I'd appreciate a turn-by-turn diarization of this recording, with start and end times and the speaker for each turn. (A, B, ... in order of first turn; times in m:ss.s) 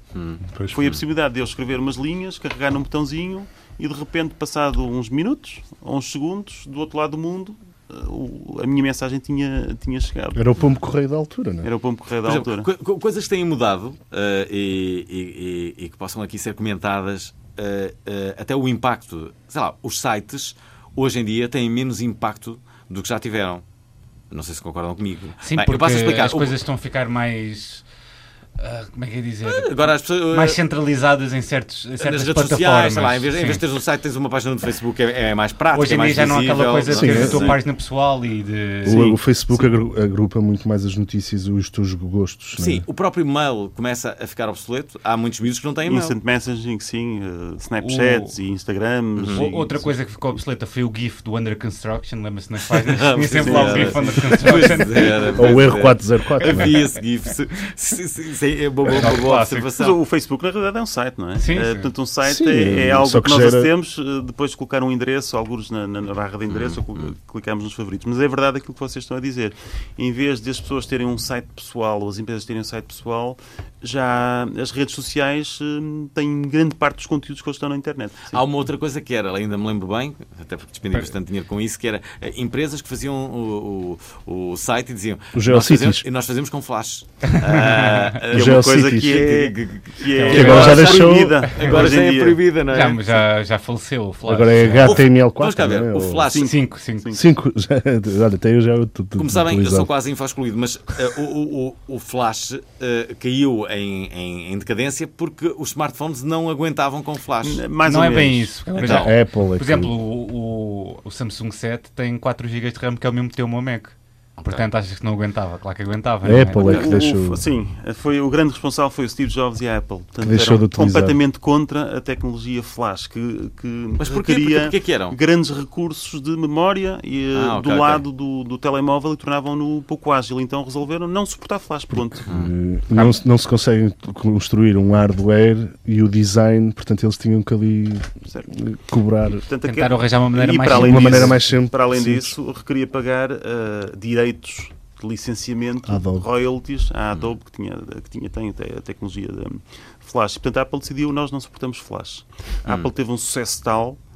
0:00.1-0:00.9 A
0:00.5-0:00.9 B
0:00.7-0:10.4 C
0:10.4-0:11.7 B
0:11.6-0:12.7 C
0:12.2-0:23.6 A
0:24.3-0:26.5 A
0:25.4-0:27.8 D
0:28.6-0:29.7 D
0:29.5-0:30.6 A
0:30.3-0:33.6 D
0:32.0-0:37.6 A
0:35.7-0:39.6 D
0:36.9-0:37.6 B
0:38.8-0:42.8 B
0:42.6-0:46.2 A
0:45.9-0:49.9 C
0:47.8-0:48.4 D
0:49.2-0:49.4 A
0:49.3-0:55.4 D
0:52.9-1:00.0 A
0:53.4-0:54.2 C
0:55.3-0:56.8 B
0:58.9-0:59.7 D
0:59.8-1:18.4 C
1:01.4-1:01.9 D
1:02.2-1:03.7 B
1:06.5-1:07.1 A
1:18.3-1:33.2 A
1:25.3-1:26.0 B
1:27.3-1:28.1 D
1:28.3-1:29.2 B
1:28.3-1:32.4 C
1:30.2-1:30.9 D
1:30.3-1:31.4 B
1:32.7-1:35.0 D
1:34.2-1:36.3 B
1:34.8-1:36.5 A
1:36.3-1:37.2 C
1:36.4-1:37.1 D
1:37.1-1:39.9 B
1:39.2-1:47.6 A
1:47.4-1:48.5 C
1:47.8-1:56.8 D
1:48.7-1:49.1 A
1:48.7-1:49.9 B
1:56.2-1:57.4 B
1:56.6-2:12.3 C
1:56.6-1:57.0 A
2:00.2-2:01.2 B
2:04.0-2:05.2 A
2:07.3-2:08.0 A
2:11.9-2:19.4 B
2:19.4-2:34.0 C
2:19.6-2:21.4 D
2:20.7-2:22.3 B
2:25.8-2:26.3 B
2:32.6-2:32.9 A